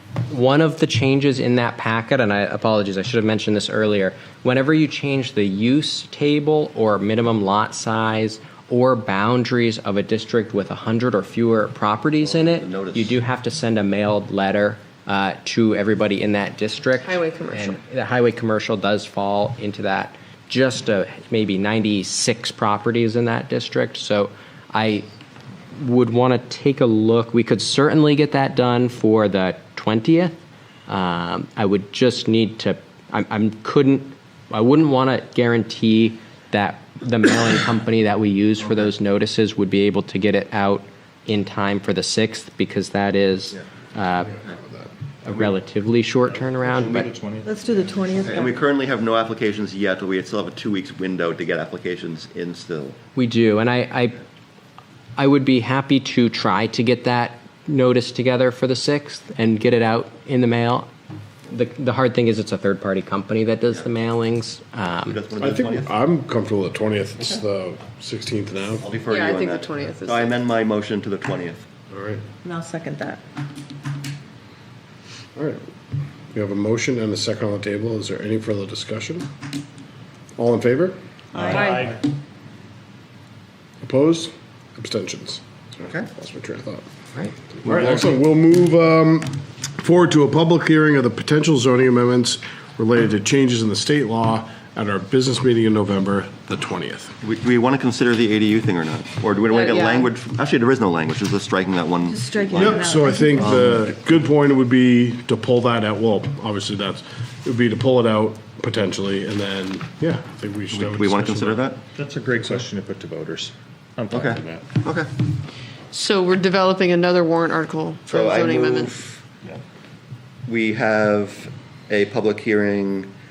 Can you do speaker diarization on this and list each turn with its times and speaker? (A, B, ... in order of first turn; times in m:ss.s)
0:00.3-0:25.1 A
0:12.2-0:13.2 B
0:17.0-0:17.8 C
0:25.8-0:30.4 A
0:30.9-0:44.3 A
0:44.2-0:44.9 D
0:45.2-0:47.1 A
0:46.2-0:48.4 E
0:47.4-0:48.4 F
0:48.2-0:53.0 B
0:53.1-0:54.2 A
0:55.2-1:00.9 A
1:01.5-1:05.2 A
1:05.1-1:05.9 B
1:05.4-1:08.9 D
1:08.8-1:11.6 B
1:09.1-1:10.3 C
1:11.9-1:12.2 D
1:12.4-1:13.2 F
1:15.4-1:15.7 D
1:16.3-1:19.3 D
1:20.4-1:21.0 D
1:21.4-1:22.0 E
1:21.6-1:21.8 C
1:23.8-1:25.4 D
1:25.8-1:26.1 B
1:26.0-1:26.8 D
1:27.6-1:37.2 D
1:37.2-1:43.9 B
1:39.5-1:40.1 C
1:42.0-1:43.6 F
1:42.5-1:51.6 D
1:50.7-1:51.8 B
1:52.0-1:54.5 E
1:54.1-1:55.1 B
1:55.9-1:58.9 C
1:58.0-1:59.2 B
2:00.5-2:03.1 B